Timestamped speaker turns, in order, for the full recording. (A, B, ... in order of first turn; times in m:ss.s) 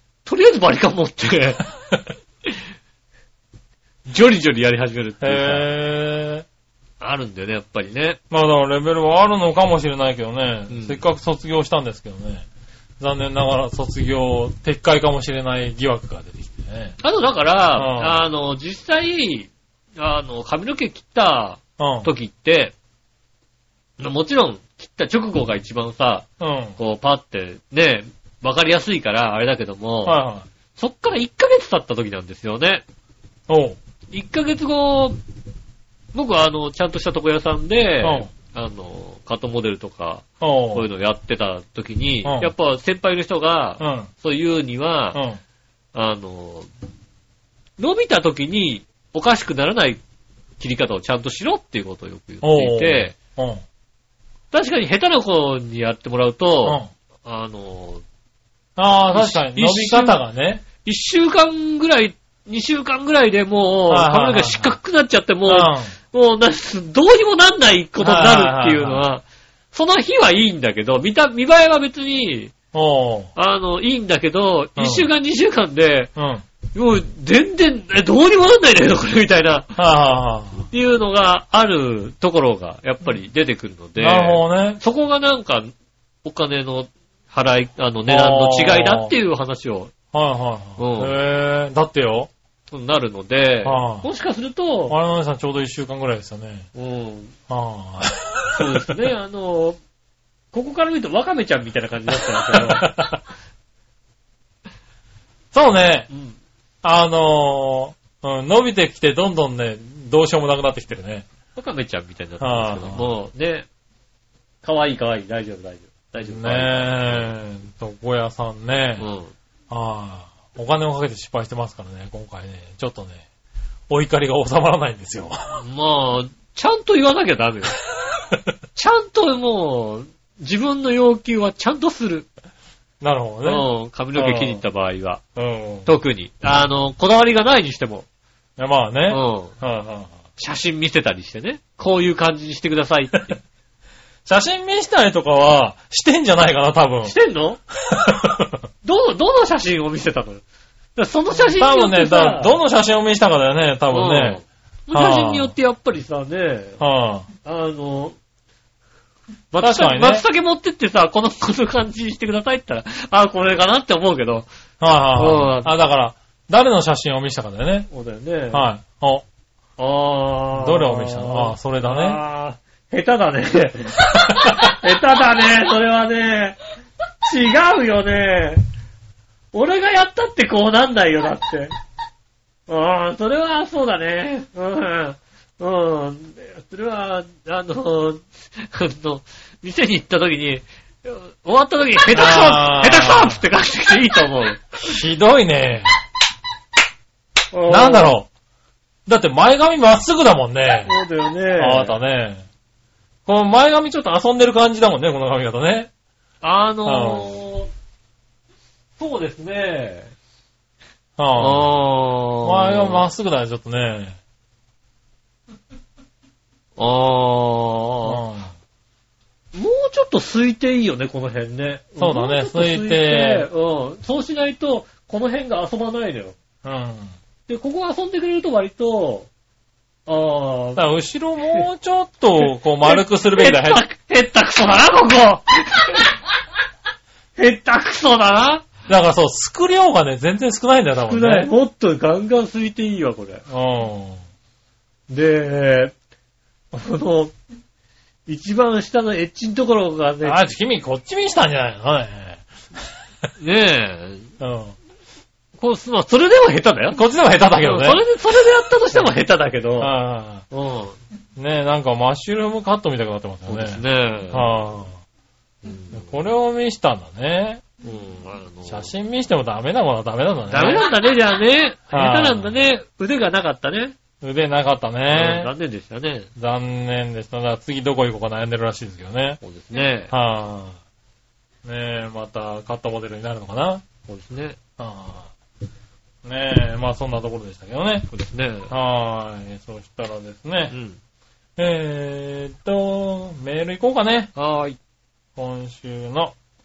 0:00.2-0:01.6 A
0:04.1-0:05.7 A
0:05.2-0:06.4 B
0:07.0-0:08.2 A
0:08.3-0:12.4 B
0:10.7-0:11.0 A
0:13.0-0:17.0 B
0:17.0-0:22.7 A
0:17.8-0:18.2 B
0:21.8-0:22.1 B
0:24.0-0:30.2 A
0:26.4-0:26.8 B
0:30.0-0:30.4 B
0:30.8-0:32.8 A
0:33.5-0:33.8 B
0:34.1-0:35.2 A
0:36.1-0:45.2 A
0:38.0-0:38.3 B
0:40.4-0:40.9 B
0:42.2-0:42.5 B
0:43.8-0:44.1 B
0:45.1-0:45.4 B
0:45.9-0:46.7 A
0:47.8-0:50.0 A
0:50.6-0:53.1 A
0:52.4-0:53.6 B
0:54.5-0:58.0 A
0:56.6-0:56.9 B
0:58.8-1:00.6 B
0:59.1-1:00.2 A
1:00.8-1:12.5 A
1:03.9-1:04.8 B
1:05.5-1:05.9 B
1:08.0-1:09.0 B
1:12.7-1:13.3 B
1:13.4-1:16.1 A
1:14.8-1:15.1 B
1:16.2-1:16.4 B
1:16.7-1:19.8 A
1:19.7-1:20.6 B
1:20.7-1:25.7 A
1:24.0-1:24.8 B
1:26.2-1:29.9 A
1:28.1-1:29.1 B
1:30.1-1:32.3 B
1:30.8-1:31.2 A
1:32.7-1:35.0 A
1:33.6-1:34.0 B
1:34.9-1:36.7 B
1:36.7-1:37.3 A
1:37.5-1:39.0 B
1:38.5-1:39.8 A
1:40.5-1:42.9 A
1:42.4-1:43.2 B
1:45.5-1:46.1 B
1:46.1-1:46.4 A
1:46.8-1:51.2 B
1:51.5-1:53.7 A
1:52.4-1:53.1 B
1:54.6-1:57.3 A
1:56.3-1:59.1 B
1:59.0-1:59.3 A
1:59.7-2:03.2 B
2:03.9-2:05.6 B
2:05.6-2:07.8 A
2:08.7-2:12.3 A
2:13.0-2:14.6 B
2:13.4-2:15.2 A
2:15.4-2:15.9 B
2:15.8-2:18.0 A
2:18.6-2:20.1 B
2:19.1-2:19.5 A
2:20.4-2:23.4 A
2:24.2-2:27.1 B
2:27.0-2:27.6 A
2:27.9-2:28.6 B
2:28.8-2:30.4 A
2:31.0-2:32.6 A
2:31.3-2:35.5 B
2:33.9-2:36.8 A
2:36.8-2:37.3 B
2:37.4-2:38.2 A
2:39.5-2:44.5 A
2:39.6-2:40.2 B
2:44.8-2:47.9 B
2:45.2-2:45.8 A
2:47.9-2:48.6 A
2:48.5-2:49.2 B
2:49.8-2:56.6 A
2:50.5-2:52.2 B
2:54.1-2:54.8 B
2:57.2-2:58.6 A
2:59.5-3:01.7 A
3:02.7-3:14.8 A
3:12.1-3:13.4 B
3:14.8-3:15.9 B
3:17.5-3:18.1 A
3:17.7-3:18.3 B
3:19.0-3:20.9 B
3:20.8-3:22.0 A
3:21.6-3:22.4 B
3:23.2-3:25.9 B
3:26.4-3:27.7 A
3:26.8-3:27.3 B
3:29.0-3:30.1 A
3:31.2-3:31.6 B
3:31.4-3:33.0 A
3:32.4-3:34.2 B
3:36.8-3:38.2 A
3:38.0-3:38.5 B
3:39.5-3:46.4 A
3:42.0-3:43.5 B
3:46.6-3:47.1 B
3:47.5-3:49.3 A
3:50.1-3:50.8 A
3:50.8-3:53.8 B
3:52.4-3:56.2 A
3:57.4-3:58.7 A
3:58.9-4:01.5 B
4:01.0-4:03.4 A
4:03.5-4:04.2 B
4:05.1-4:05.9 A
4:06.7-4:07.3 A
4:08.3-4:10.4 A
4:10.2-4:12.5 B
4:13.4-4:14.3 A
4:14.4-4:14.8 B
4:15.6-4:17.0 A
4:16.9-4:18.0 B
4:17.6-4:19.9 A
4:19.8-4:20.4 B
4:20.5-4:21.0 A
4:21.4-4:25.0 B
4:23.5-4:24.6 A
4:25.6-4:26.1 A
4:25.9-4:27.6 B
4:27.8-4:28.9 A
4:28.6-4:30.9 B
4:30.5-4:33.9 A
4:31.9-4:32.5 B
4:34.2-4:35.5 B
4:35.1-4:36.3 A
4:36.4-4:39.4 B
4:39.4-4:40.1 A
4:40.1-4:40.8 B
4:41.6-4:43.8 B
4:44.1-4:44.6 A
4:44.8-4:45.3 B
4:46.2-4:48.1 B
4:48.1-4:48.7 A
4:48.7-4:50.7 B
4:50.7-4:51.0 A
4:51.6-4:54.3 B
4:54.3-4:54.8 A
4:55.4-4:56.3 B